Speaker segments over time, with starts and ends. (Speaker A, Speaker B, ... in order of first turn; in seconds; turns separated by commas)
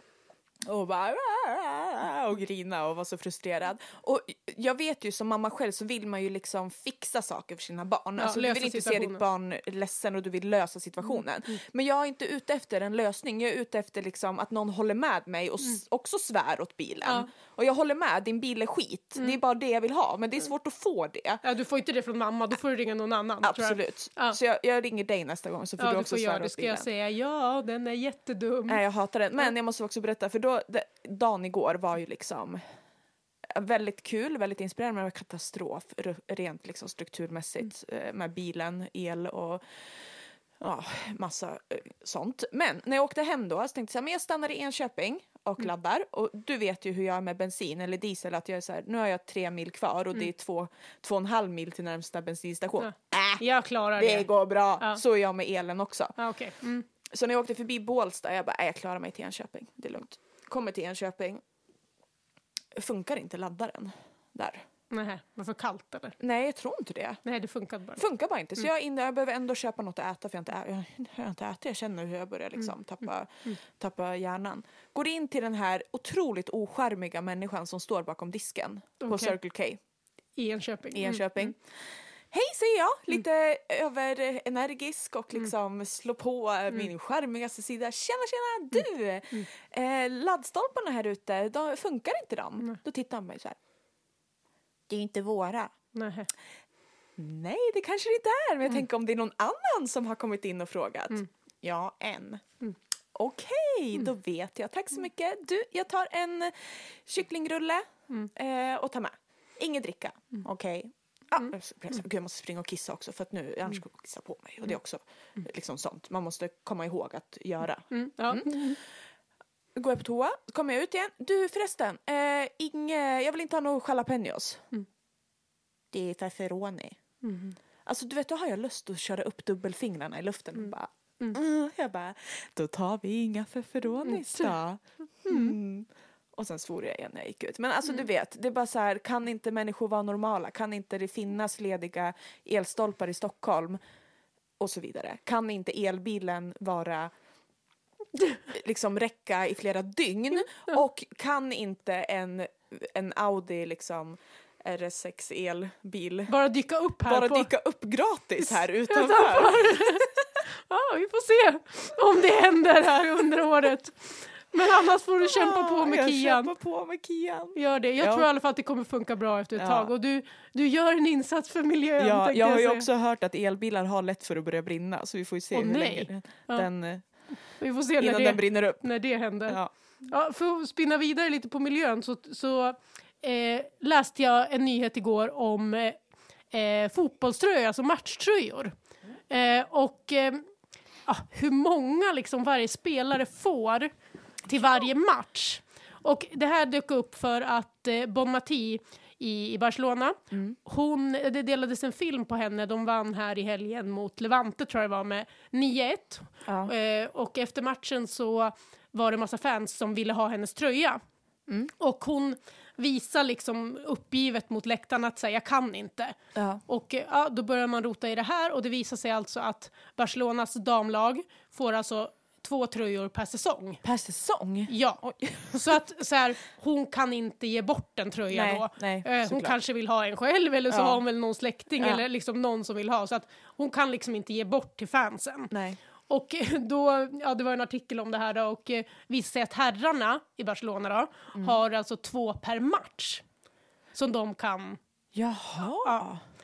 Speaker A: 0.7-21.4, Speaker B: 8.2-9.2, Speaker B: 21.4-24.4, Speaker A: 23.4-26.9, Speaker B: 25.8-28.8, Speaker A: 28.7-32.6, Speaker A: 33.5-53.4, Speaker B: 52.8-54.3, Speaker A: 53.9-56.1, Speaker B: 56.2-56.9, Speaker A: 57.0-61.4, Speaker A: 62.7-64.6, Speaker B: 64.9-66.2, Speaker A: 66.2-67.2, Speaker B: 67.2-68.0, Speaker A: 68.0-79.8, Speaker B: 79.0-79.3, Speaker B: 80.4-81.5, Speaker A: 80.9-81.6, Speaker A: 82.3-93.6, Speaker A: 94.9-95.7, Speaker B: 95.9-96.3, Speaker A: 97.2-102.4, Speaker A: 103.1-118.8, Speaker B: 117.9-118.8, Speaker A: 119.7-124.6, Speaker A: 125.9-127.0, Speaker B: 127.2-127.5, Speaker A: 127.8-143.8, Speaker B: 135.3-135.5, Speaker A: 144.6-147.1, Speaker A: 148.5-156.3, Speaker B: 156.3-157.5, Speaker A: 157.0-160.2, Speaker B: 158.4-166.5, Speaker A: 165.2-168.3, Speaker B: 167.5-172.9, Speaker A: 169.6-169.9, Speaker A: 172.0-177.0, Speaker B: 175.5-176.7, Speaker B: 177.6-186.0, Speaker A: 178.0-178.9, Speaker B: 186.5-188.7, Speaker B: 189.3-190.4, Speaker B: 191.1-193.9, Speaker B: 194.4-211.0, Speaker A: 200.3-200.6, Speaker A: 206.4-206.7, Speaker B: 211.8-223.8, Speaker A: 216.3-216.6, Speaker A: 223.8-225.8, Speaker B: 224.7-235.5, Speaker A: 228.3-229.6, Speaker A: 230.7-231.0, Speaker A: 235.5-235.8, Speaker B: 236.1-243.2, Speaker B: 243.9-244.8, Speaker A: 245.1-246.2